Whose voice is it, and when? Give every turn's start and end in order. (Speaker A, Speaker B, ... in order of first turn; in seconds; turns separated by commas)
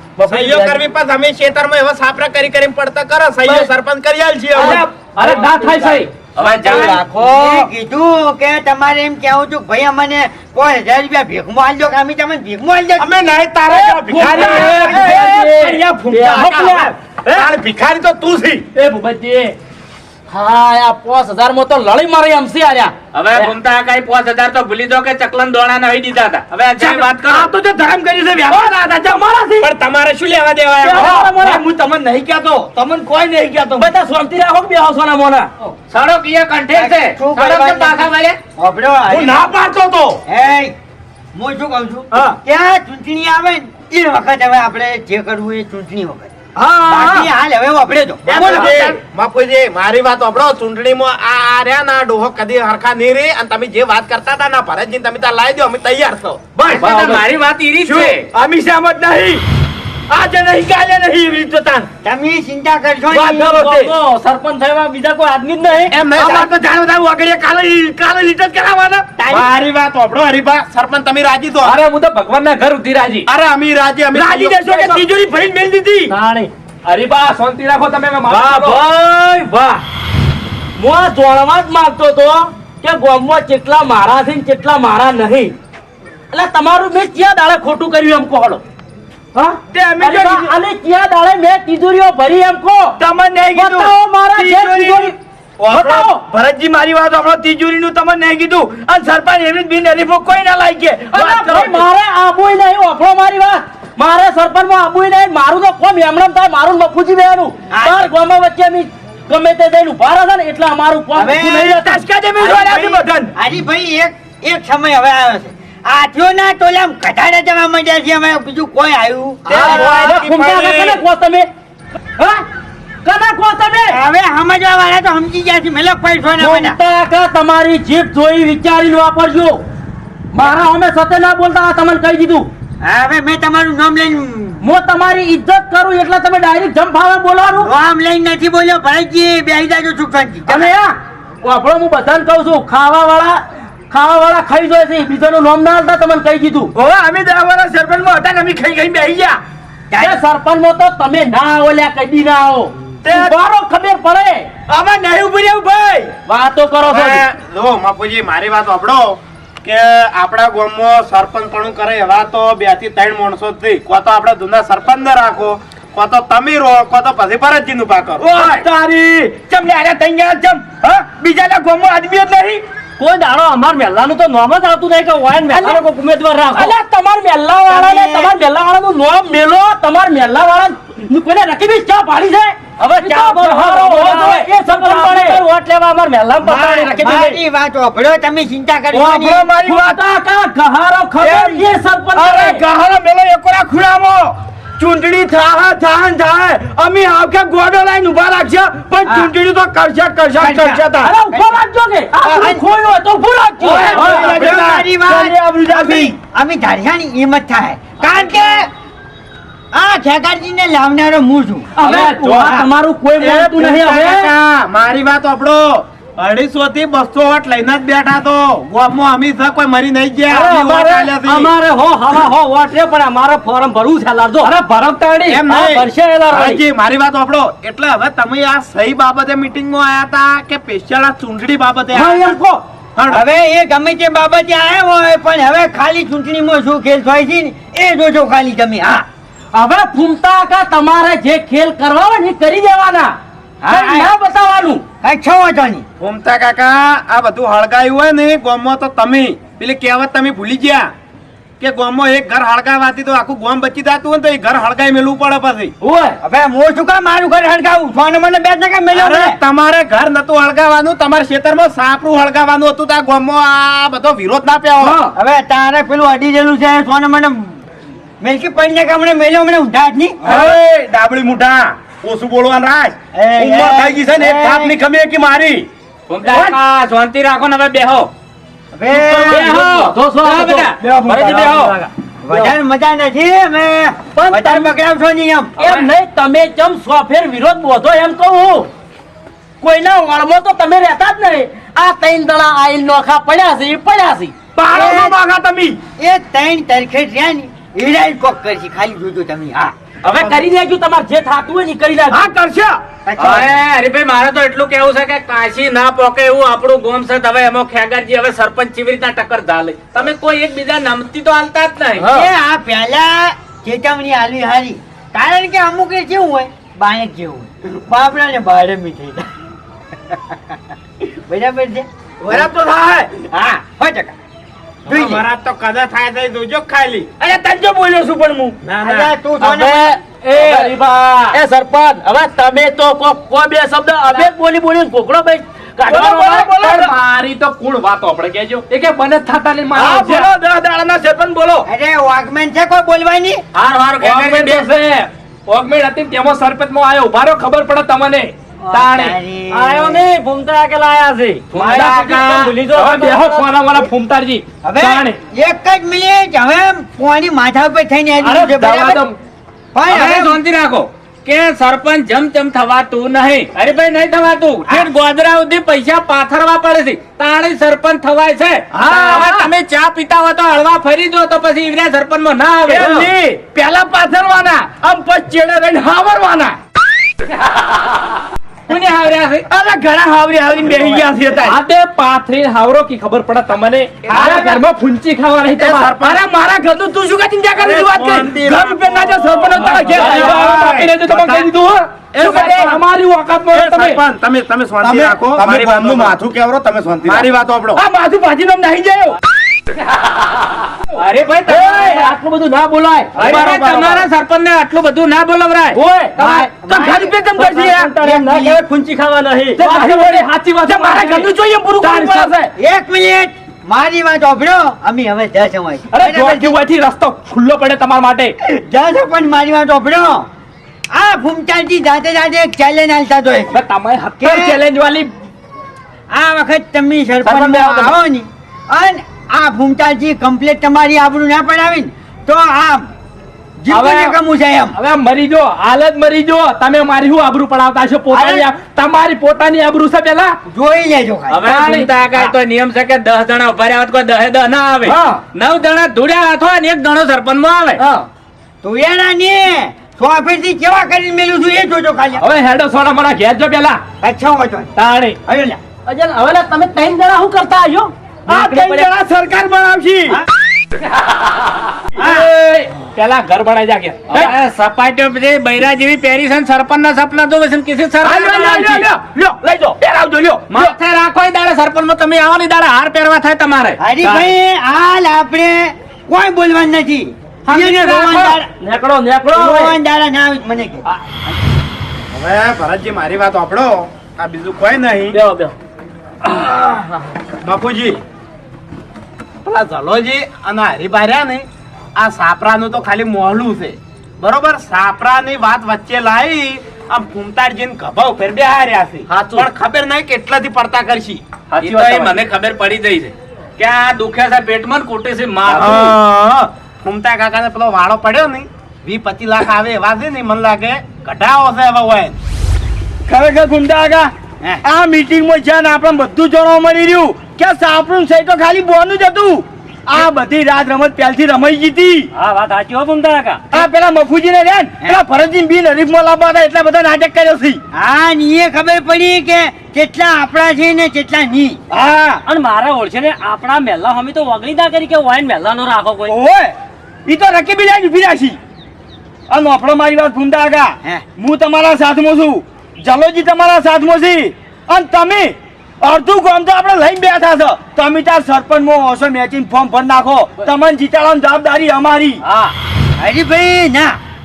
Speaker A: 0.2-0.8, Speaker B: 0.2-4.9, Speaker C: 4.5-6.3, Speaker A: 4.6-6.0, Speaker D: 6.3-7.0, Speaker E: 6.4-6.9, Speaker F: 6.7-13.1, Speaker A: 6.7-7.5, Speaker B: 6.7-7.0, Speaker E: 13.0-15.0, Speaker C: 14.0-15.9, Speaker G: 14.2-15.1, Speaker A: 14.2-16.8, Speaker F: 14.8-15.2, Speaker G: 16.1-16.9, Speaker E: 17.3-18.6, Speaker C: 18.8-19.6, Speaker G: 20.3-22.9, Speaker D: 23.1-27.5, Speaker A: 26.8-29.7, Speaker G: 28.5-28.8, Speaker B: 29.6-31.2, Speaker G: 30.8-31.7, Speaker A: 30.9-33.9, Speaker G: 33.8-35.5, Speaker D: 35.9-38.4, Speaker F: 36.7-38.1, Speaker F: 38.6-39.4, Speaker E: 39.1-40.2, Speaker A: 39.1-39.5, Speaker F: 40.3-40.8, Speaker F: 41.3-46.3, Speaker A: 42.1-42.4, Speaker A: 46.6-47.3, Speaker F: 46.9-48.9, Speaker A: 48.3-49.0, Speaker B: 48.3-56.6, Speaker A: 56.5-57.2, Speaker D: 56.7-58.3, Speaker A: 57.8-59.4, Speaker A: 60.1-61.9, Speaker F: 62.0-63.6, Speaker A: 63.1-63.9, Speaker G: 63.2-66.0, Speaker B: 65.9-66.5, Speaker A: 66.1-69.4, Speaker B: 69.2-71.8, Speaker C: 71.6-73.3, Speaker B: 73.3-74.9, Speaker A: 74.1-76.1, Speaker G: 76.1-76.5, Speaker C: 76.9-78.8, Speaker G: 78.3-79.8, Speaker G: 80.8-85.5, Speaker G: 86.3-88.6, Speaker G: 89.3-93.0, Speaker A: 89.6-90.5, Speaker A: 93.0-101.8, Speaker G: 93.5-95.2, Speaker G: 95.7-96.2, Speaker G: 101.1-112.0, Speaker F: 107.7-108.1, Speaker A: 111.2-113.3, Speaker F: 111.3-111.6, Speaker F: 112.4-120.2, Speaker B: 119.5-121.0, Speaker G: 119.6-121.5, Speaker G: 122.2-122.5, Speaker G: 123.0-124.0, Speaker F: 123.9-126.8, Speaker G: 126.4-129.6, Speaker G: 130.3-132.5, Speaker F: 132.8-134.6, Speaker G: 134.6-137.7, Speaker F: 137.6-140.7, Speaker G: 140.5-146.7, Speaker A: 146.8-149.4, Speaker F: 149.9-150.2, Speaker G: 150.0-154.5, Speaker A: 153.0-153.3, Speaker A: 154.7-156.2, Speaker G: 156.3-157.2, Speaker B: 156.8-168.6, Speaker A: 168.2-172.6, Speaker G: 173.0-187.4, Speaker F: 177.7-178.3, Speaker A: 183.0-185.3, Speaker F: 186.4-189.5, Speaker A: 188.9-190.0, Speaker G: 189.6-192.7, Speaker A: 191.2-201.1, Speaker F: 199.1-199.3, Speaker F: 200.4-201.5, Speaker G: 200.9-204.5, Speaker F: 202.2-202.6, Speaker A: 203.6-206.2, Speaker F: 203.6-208.7, Speaker F: 209.7-211.7, Speaker G: 211.8-214.3, Speaker C: 211.8-212.5, Speaker F: 212.4-212.7, Speaker B: 213.2-221.5, Speaker G: 220.3-226.6, Speaker B: 225.3-232.4, Speaker G: 231.9-232.7, Speaker B: 233.0-233.2, Speaker F: 233.1-239.1, Speaker G: 239.5-244.8, Speaker F: 243.7-244.1, Speaker F: 245.0-245.9, Speaker B: 246.0-250.9, Speaker B: 251.6-255.7, Speaker G: 255.8-256.2, Speaker F: 256.2-259.4, Speaker B: 258.9-265.0, Speaker G: 264.8-265.1, Speaker F: 265.1-267.6, Speaker F: 268.2-270.2, Speaker E: 270.2-275.7, Speaker F: 273.1-274.8, Speaker D: 276.1-278.1, Speaker F: 278.7-279.6, Speaker G: 279.1-282.5, Speaker D: 279.1-280.8, Speaker A: 280.8-281.7, Speaker F: 282.2-285.6, Speaker G: 284.2-284.7, Speaker G: 285.6-288.7, Speaker C: 285.6-285.9, Speaker G: 289.6-294.4, Speaker A: 294.6-295.8, Speaker F: 294.7-295.2, Speaker F: 296.0-299.8, Speaker G: 300.0-302.3, Speaker B: 300.1-300.5, Speaker A: 302.1-302.8, Speaker F: 303.1-303.5, Speaker D: 303.2-312.1, Speaker F: 312.0-319.3, Speaker F: 320.1-322.5, Speaker B: 322.3-322.8, Speaker A: 322.3-323.1, Speaker F: 323.1-324.2, Speaker B: 324.9-327.1, Speaker F: 324.9-325.2, Speaker A: 327.2-328.6, Speaker B: 328.6-329.1, Speaker F: 328.8-330.0, Speaker G: 329.4-330.8, Speaker C: 330.1-331.4, Speaker G: 331.3-336.5, Speaker A: 335.9-336.9, Speaker C: 336.5-340.3, Speaker A: 339.7-341.7, Speaker F: 341.7-343.4, Speaker D: 343.5-344.7, Speaker C: 344.0-349.2, Speaker F: 348.6-350.0, Speaker G: 349.5-353.5, Speaker D: 351.5-352.5, Speaker C: 351.6-355.2, Speaker F: 354.6-359.0, Speaker C: 358.2-359.2, Speaker F: 359.7-360.4, Speaker D: 359.9-373.1, Speaker A: 368.7-369.5, Speaker C: 368.9-369.2, Speaker A: 372.7-376.6, Speaker C: 372.8-373.1, Speaker D: 378.7-379.5, Speaker A: 379.5-381.6, Speaker C: 381.4-386.1, Speaker B: 384.1-384.6, Speaker A: 384.1-384.5, Speaker B: 385.6-386.2, Speaker A: 386.0-390.8, Speaker B: 387.6-388.7, Speaker C: 387.6-394.0, Speaker B: 389.4-391.5, Speaker B: 392.1-392.8, Speaker B: 393.5-396.2, Speaker E: 394.8-397.3, Speaker B: 397.1-397.8, Speaker A: 397.7-399.2, Speaker D: 401.0-402.1, Speaker G: 401.5-403.6, Speaker A: 401.6-402.0, Speaker B: 403.1-404.1, Speaker D: 403.2-405.8, Speaker G: 405.7-406.5, Speaker F: 406.2-407.2, Speaker A: 406.2-408.3, Speaker G: 407.3-409.8, Speaker F: 408.0-408.6, Speaker C: 409.6-412.5, Speaker A: 409.6-412.4, Speaker F: 412.6-416.6, Speaker C: 415.9-418.3, Speaker F: 418.4-420.3, Speaker F: 420.9-423.6, Speaker C: 423.5-425.1, Speaker F: 424.2-424.6, Speaker F: 426.1-432.9, Speaker C: 427.2-427.9, Speaker F: 433.6-434.8, Speaker C: 433.7-434.2, Speaker C: 434.8-440.4, Speaker F: 438.1-438.4, Speaker F: 440.5-441.5, Speaker D: 441.3-447.8, Speaker C: 441.5-441.9, Speaker C: 444.9-445.2, Speaker G: 447.8-448.1, Speaker F: 448.6-452.2, Speaker C: 452.2-453.8, Speaker F: 454.0-454.7, Speaker C: 454.8-455.2, Speaker F: 455.3-455.6, Speaker G: 455.9-458.9, Speaker A: 458.3-460.2, Speaker C: 462.0-464.3, Speaker F: 462.0-462.3, Speaker D: 464.1-468.8, Speaker A: 468.0-470.6, Speaker C: 468.2-468.8, Speaker D: 470.5-473.8, Speaker F: 473.8-478.5, Speaker G: 477.5-479.8, Speaker F: 479.3-480.9, Speaker B: 482.1-485.2, Speaker G: 485.1-485.5, Speaker B: 487.4-488.0, Speaker B: 489.4-501.2, Speaker G: 499.1-499.5, Speaker G: 501.6-501.9, Speaker D: 501.6-506.0, Speaker C: 501.7-502.2, Speaker B: 505.5-512.1, Speaker A: 513.1-514.1, Speaker A: 514.6-522.1, Speaker G: 522.1-523.6, Speaker A: 523.5-527.6, Speaker F: 527.7-531.6, Speaker A: 531.7-532.2, Speaker G: 532.2-536.2, Speaker A: 536.1-536.5, Speaker A: 537.1-538.4, Speaker A: 539.3-552.2, Speaker G: 552.2-552.5, Speaker F: 553.0-554.0